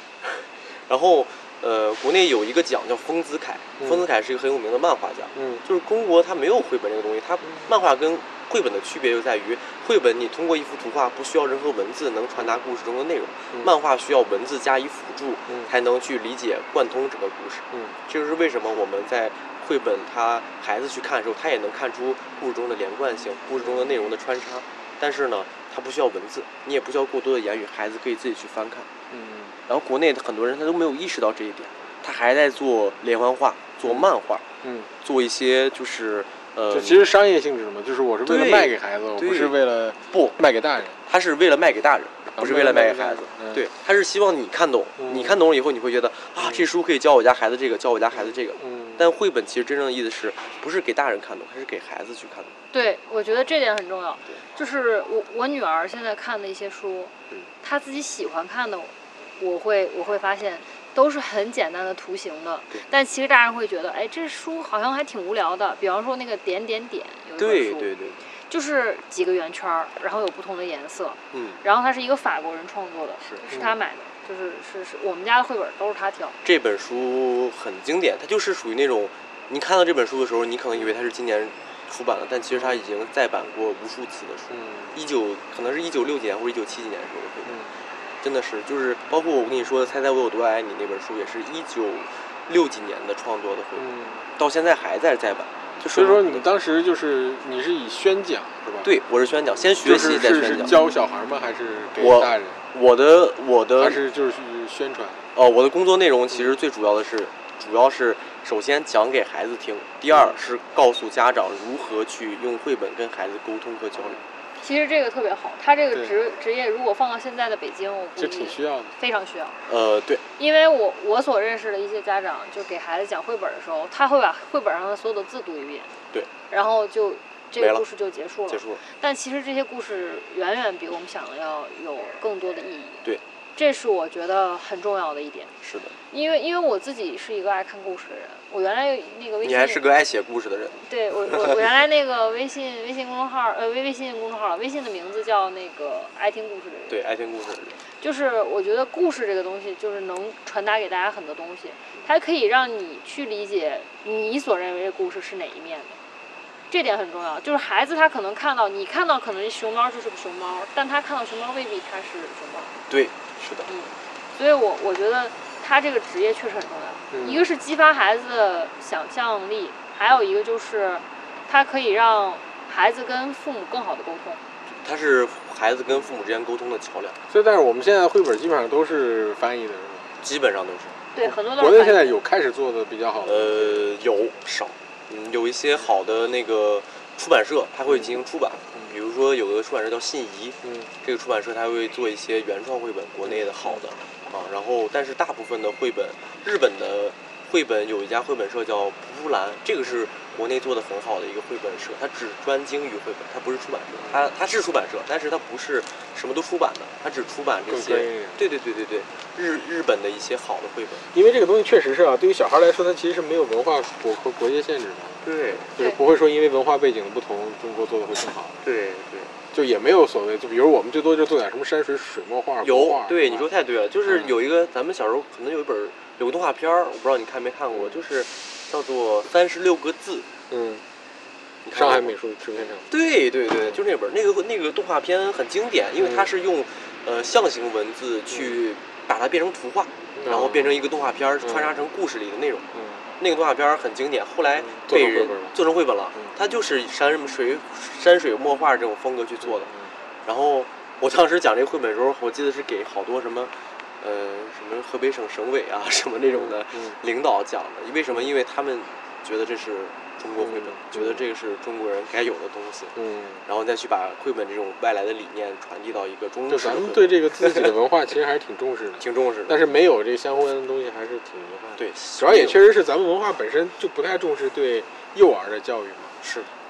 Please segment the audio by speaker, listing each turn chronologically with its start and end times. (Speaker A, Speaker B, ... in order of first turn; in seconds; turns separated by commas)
Speaker A: 0.2-28.9, Speaker B: 3.8-4.0, Speaker B: 5.3-5.6, Speaker B: 17.7-18.0, Speaker B: 23.6-23.9, Speaker B: 29.1-29.6, Speaker A: 29.7-34.5, Speaker B: 33.8-34.1, Speaker B: 34.6-34.9, Speaker A: 35.0-37.1, Speaker B: 36.7-41.0, Speaker A: 38.2-39.6, Speaker A: 40.1-40.4, Speaker A: 41.0-52.5, Speaker B: 42.4-43.7, Speaker B: 45.0-45.4, Speaker B: 46.4-46.7, Speaker B: 48.1-49.1, Speaker C: 52.7-67.9, Speaker A: 67.4-68.2, Speaker C: 68.5-76.4, Speaker A: 71.3-71.6, Speaker A: 73.2-73.5, Speaker B: 73.5-73.7, Speaker A: 76.4-87.6, Speaker B: 82.5-82.8, Speaker B: 84.5-85.0, Speaker B: 87.5-87.8, Speaker A: 88.2-96.5, Speaker B: 93.8-94.3, Speaker B: 95.9-98.9, Speaker A: 98.8-100.8, Speaker B: 99.8-102.6, Speaker A: 102.0-104.0, Speaker B: 103.8-105.3, Speaker A: 105.3-114.2, Speaker B: 110.1-110.4, Speaker B: 114.0-114.2, Speaker C: 114.6-119.6, Speaker B: 118.2-118.9, Speaker A: 119.7-120.2, Speaker C: 120.4-125.9, Speaker C: 126.5-135.5, Speaker A: 127.5-127.8, Speaker A: 128.5-128.8, Speaker A: 135.6-135.9, Speaker C: 136.1-139.8, Speaker A: 139.4-141.6, Speaker C: 140.8-147.0, Speaker A: 146.9-147.8, Speaker C: 148.0-156.0, Speaker C: 156.7-162.7, Speaker A: 162.9-163.7, Speaker C: 163.7-174.4, Speaker B: 167.1-167.5, Speaker A: 174.8-177.2, Speaker B: 177.3-180.2, Speaker A: 180.2-181.0, Speaker C: 181.1-182.2, Speaker B: 181.2-183.9, Speaker A: 183.2-211.1, Speaker B: 187.9-188.2, Speaker B: 190.6-190.9, Speaker B: 193.2-193.8, Speaker B: 204.0-204.3, Speaker B: 207.7-208.5, Speaker B: 211.1-218.6, Speaker A: 215.2-215.7, Speaker A: 218.6-219.3, Speaker B: 219.5-223.5, Speaker A: 222.6-230.3, Speaker B: 224.1-224.4, Speaker B: 227.7-228.0, Speaker B: 230.5-230.8, Speaker A: 231.6-232.1, Speaker B: 231.7-232.9, Speaker A: 232.9-249.7, Speaker B: 236.0-236.3, Speaker B: 240.1-240.8, Speaker B: 241.4-241.7, Speaker B: 242.7-243.1, Speaker B: 244.6-245.6, Speaker B: 249.4-249.9, Speaker A: 250.2-267.8, Speaker B: 256.3-257.0, Speaker B: 260.4-261.2, Speaker B: 262.9-263.4, Speaker B: 266.5-276.2, Speaker A: 269.0-269.7, Speaker A: 271.8-272.6, Speaker A: 276.2-276.5